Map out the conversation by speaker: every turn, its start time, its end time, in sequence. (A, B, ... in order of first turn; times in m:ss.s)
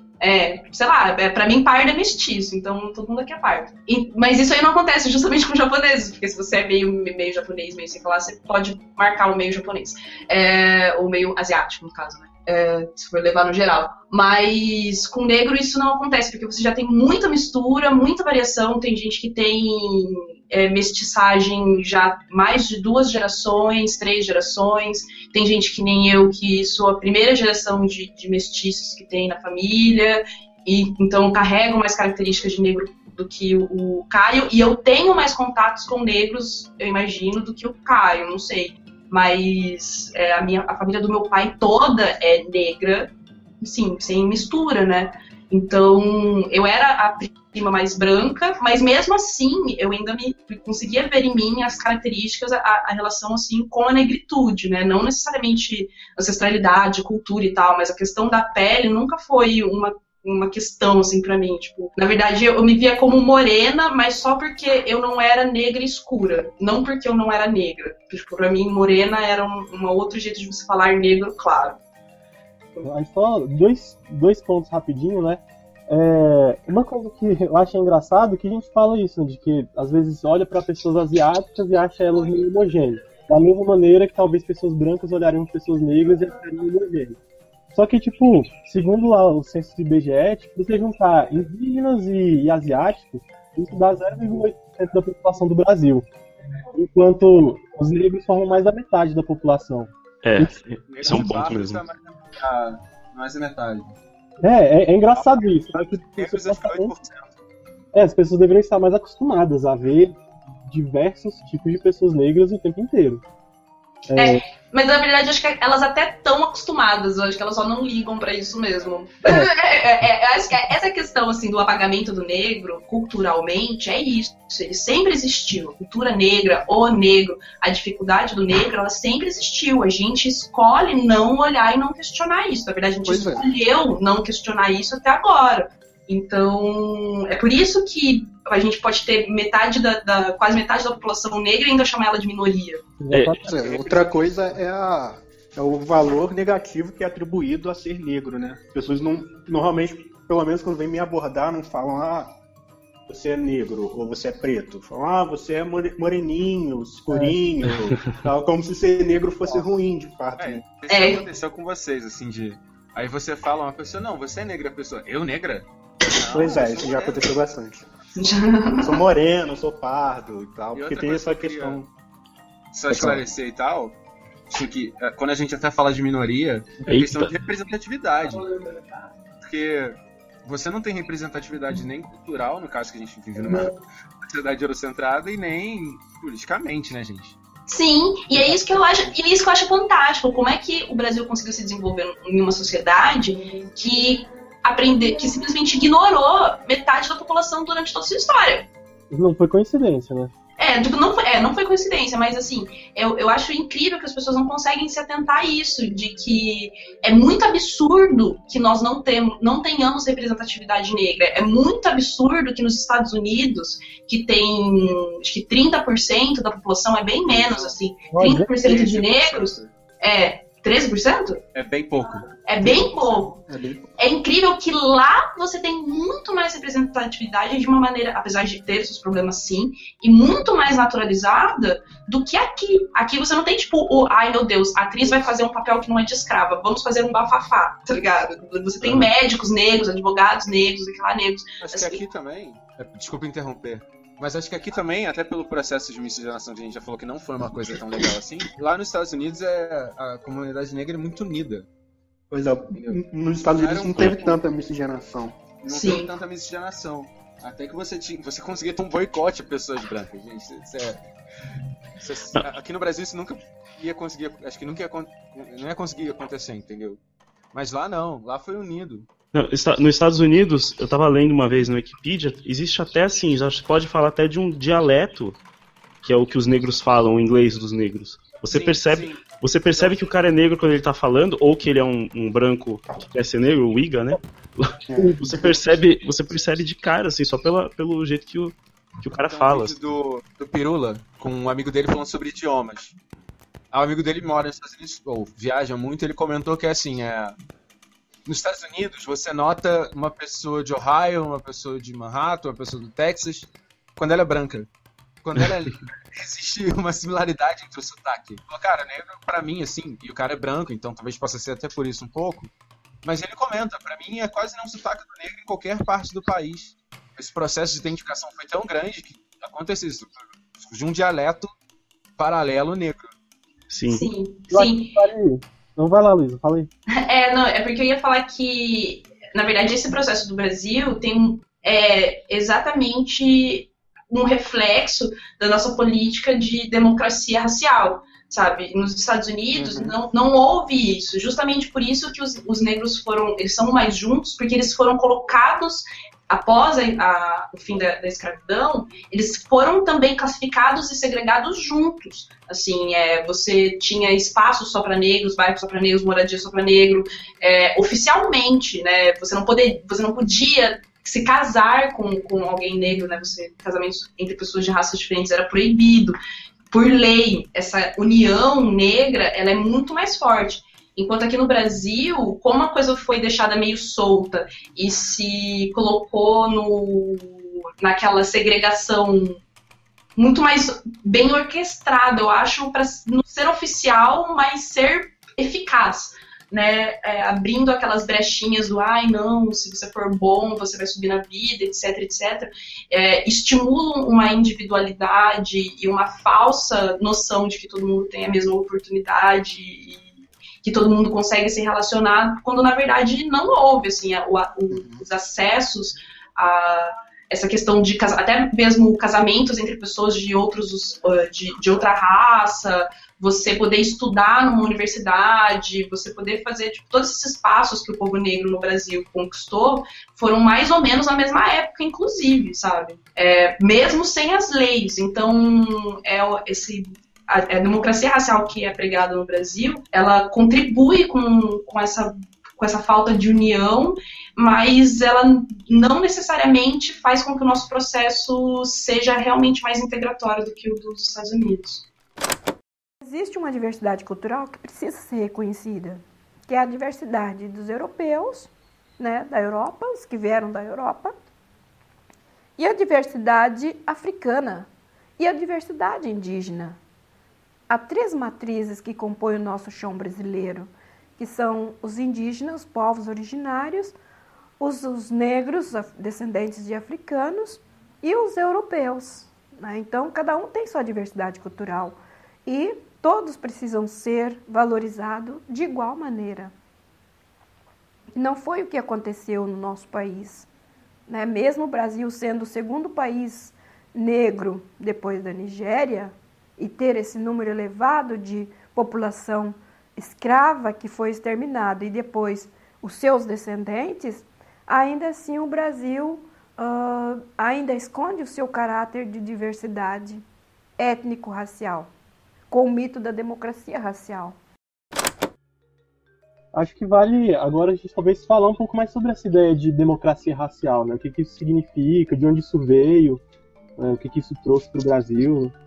0:00.2-1:11.8 A
1:12.8-1:27.2 B
1:27.7-1:36.0 B
1:36.7-1:40.6 B
1:40.2-1:41.8 C
1:40.9-1:44.0 D
1:44.4-1:46.9 B
1:45.1-1:47.3 D
1:47.9-1:53.2 B
1:54.1-1:54.4 B
1:54.1-2:22.8 A
2:13.0-2:13.5 E
2:23.0-2:23.4 B
2:23.1-2:23.4 C
2:23.4-2:32.4 E
2:23.6-2:24.1 D
2:33.1-2:40.6 E
2:37.1-2:37.4 B
2:40.4-2:47.3 D
2:40.9-2:41.2 A
2:46.2-2:47.9 E
2:48.2-2:49.0 A
2:48.8-2:51.9 E
2:50.7-2:51.8 D
2:52.7-2:53.9 D
2:52.9-2:53.2 E
2:54.5-2:58.5 D
2:56.8-2:57.3 C
2:59.4-3:07.4 D
3:07.7-3:18.7 A
3:19.1-3:20.3 B
3:20.6-3:41.4 A
3:37.2-3:37.8 D
3:38.1-3:38.5 B
3:38.6-3:39.7 D
3:41.5-3:42.3 D
3:42.4-3:43.4 A
3:42.6-3:43.9 E
3:44.0-4:02.0 A
4:01.6-4:11.7 D
4:12.3-4:15.4 E
4:12.7-4:14.3 D
4:15.6-4:21.0 D
4:15.7-4:16.1 A
4:22.0-4:27.0 D
4:27.5-4:29.1 D
4:29.3-4:35.4 C
4:36.0-4:49.8 C
4:38.4-4:40.1 D
4:44.9-4:45.5 E
4:49.2-4:52.9 D
4:53.7-4:57.4 D
4:58.2-5:04.7 D
5:05.2-5:12.5 D
5:13.0-5:21.5 D
5:22.2-5:23.1 D
5:23.7-5:24.1 C
5:23.9-5:25.0 A
5:24.5-5:26.7 B
5:26.9-6:06.2 A
5:39.6-5:39.9 E
6:06.7-6:19.4 A
6:20.2-7:21.8 A
6:44.7-6:45.0 E
7:23.0-7:31.1 F
7:32.6-7:36.8 F
7:37.7-7:43.9 F
7:44.6-7:56.5 F
7:58.1-8:00.5 F
8:01.1-8:20.2 F
8:20.8-8:21.9 F
8:22.5-8:24.4 F
8:26.5-8:33.2 B
8:33.8-8:35.5 B